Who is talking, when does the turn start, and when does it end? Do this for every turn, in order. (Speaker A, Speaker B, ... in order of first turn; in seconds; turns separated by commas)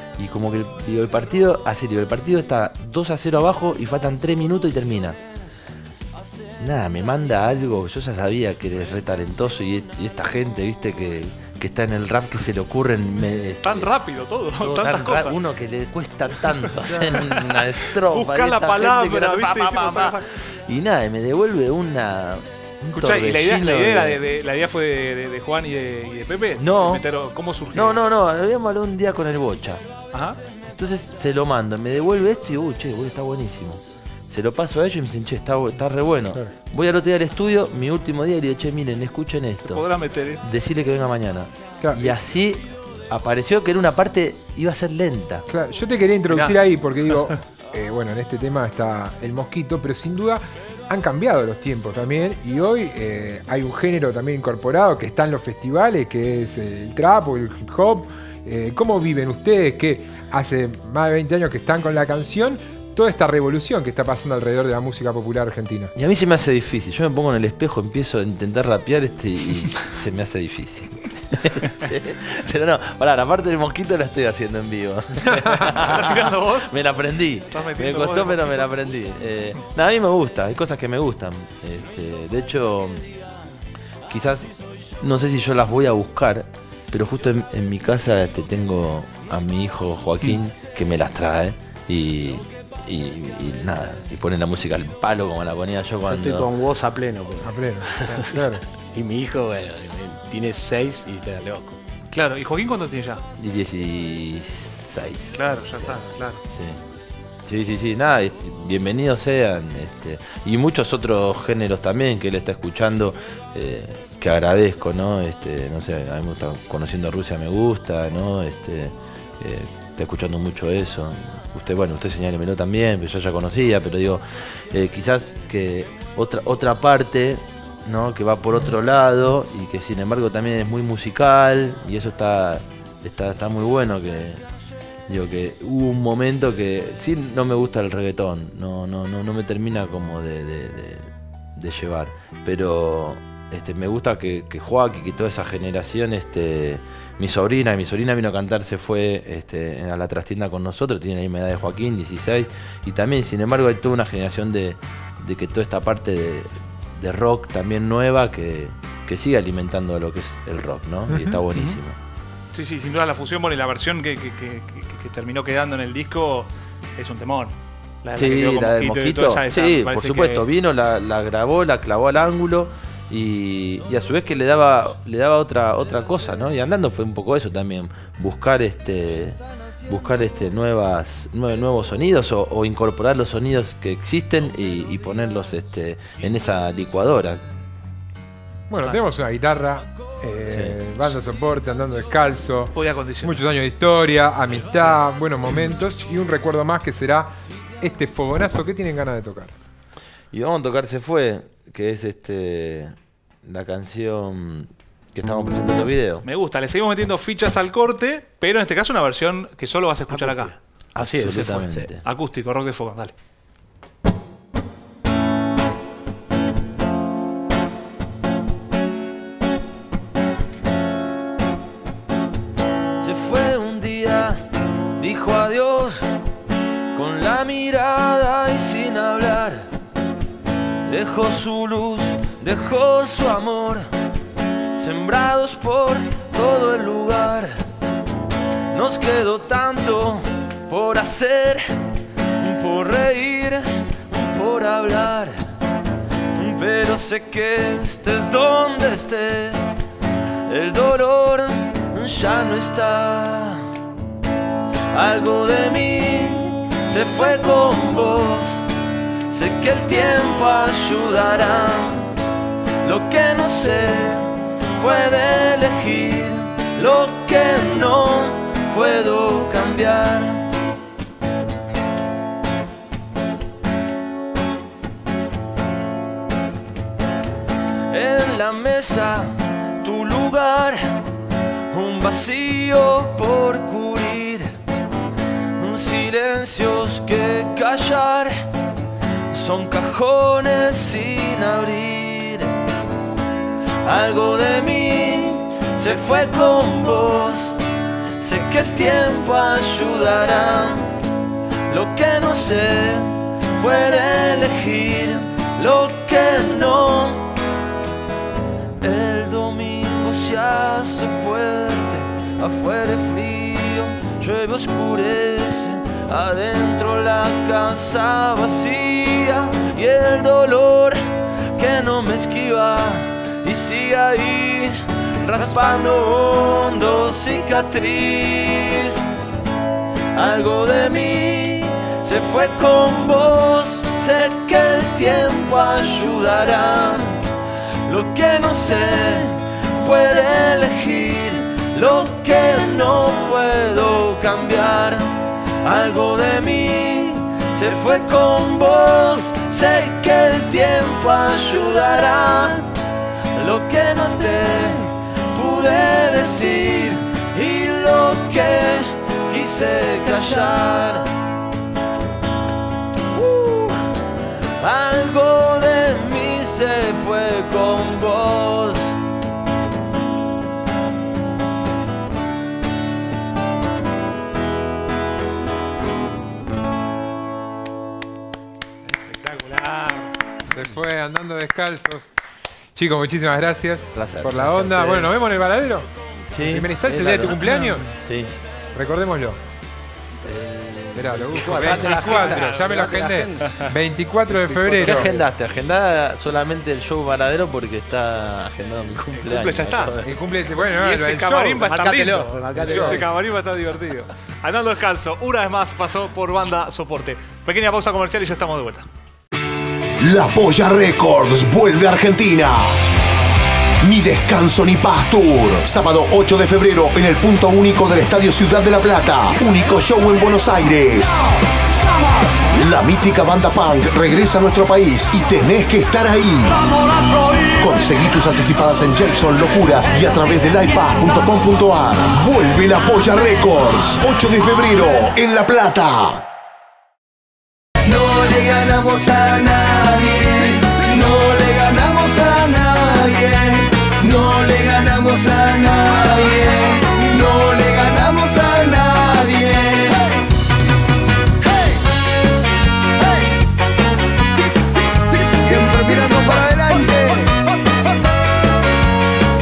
Speaker A: 0.2-5.2, Speaker A: 6.6-13.9, Speaker B: 13.6-15.4, Speaker A: 14.6-24.2, Speaker B: 16.5-20.4, Speaker B: 22.9-28.0, Speaker A: 26.6-27.0, Speaker A: 27.7-29.8, Speaker B: 30.1-30.4, Speaker A: 30.7-39.9, Speaker B: 39.6-40.4, Speaker A: 40.4-45.4, Speaker C: 41.8-42.1, Speaker C: 45.5-65.9, Speaker B: 46.3-46.6, Speaker A: 65.9-83.1, Speaker B: 75.8-76.7, Speaker B: 77.5-78.8, Speaker A: 84.1-96.5, Speaker D: 96.1-101.8, Speaker C: 97.4-98.7, Speaker B: 102.1-103.2, Speaker A: 103.4-106.8, Speaker B: 105.3-106.4, Speaker A: 107.5-134.4, Speaker A: 135.1-162.0, Speaker C: 161.1-161.4, Speaker B: 162.5-170.4, Speaker A: 168.2-187.4, Speaker C: 188.7-197.3, Speaker A: 190.5-190.8, Speaker B: 192.7-193.4, Speaker C: 197.8-199.5, Speaker A: 200.3-206.2, Speaker B: 206.2-210.6, Speaker D: 210.1-211.8, Speaker A: 211.0-212.0, Speaker B: 212.0-213.1, Speaker A: 223.0-224.4, Speaker A: 225.0-226.1, Speaker A: 226.9-229.7, Speaker A: 230.8-233.9, Speaker A: 234.8-237.6, Speaker A: 238.7-241.7, Speaker A: 242.3-245.4, Speaker A: 246.3-249.7, Speaker A: 250.4-253.7, Speaker A: 254.9-258.7, Speaker A: 259.3-262.2, Speaker A: 262.8-270.5, Speaker A: 277.9-281.1, Speaker A: 281.7-284.6, Speaker A: 285.6-288.5, Speaker A: 289.3-292.7, Speaker A: 293.8-297.6, Speaker A: 298.2-300.9, Speaker A: 301.7-307.4, Speaker A: 308.8-329.1, Speaker A: 330.1-337.3, Speaker A: 337.8-352.8, Speaker A: 353.3-361.1, Speaker A: 363.1-363.8, Speaker A: 364.6-369.0, Speaker B: 378.9-380.1, Speaker C: 380.5-382.1, Speaker C: 382.7-385.9, Speaker A: 383.9-385.1, Speaker A: 386.3-388.3, Speaker C: 386.4-387.9, Speaker B: 387.4-387.8, Speaker C: 388.7-389.4, Speaker D: 390.2-393.5, Speaker C: 390.9-395.2, Speaker B: 391.3-393.5, Speaker D: 394.5-395.0, Speaker A: 394.8-400.2, Speaker B: 399.2-399.9, Speaker C: 400.0-401.7, Speaker B: 400.6-408.9, Speaker D: 401.6-403.1, Speaker C: 402.6-403.0, Speaker E: 410.0-412.7, Speaker E: 413.8-421.2, Speaker E: 422.5-426.7, Speaker E: 427.5-436.2, Speaker F: 437.8-450.1, Speaker F: 454.5-457.4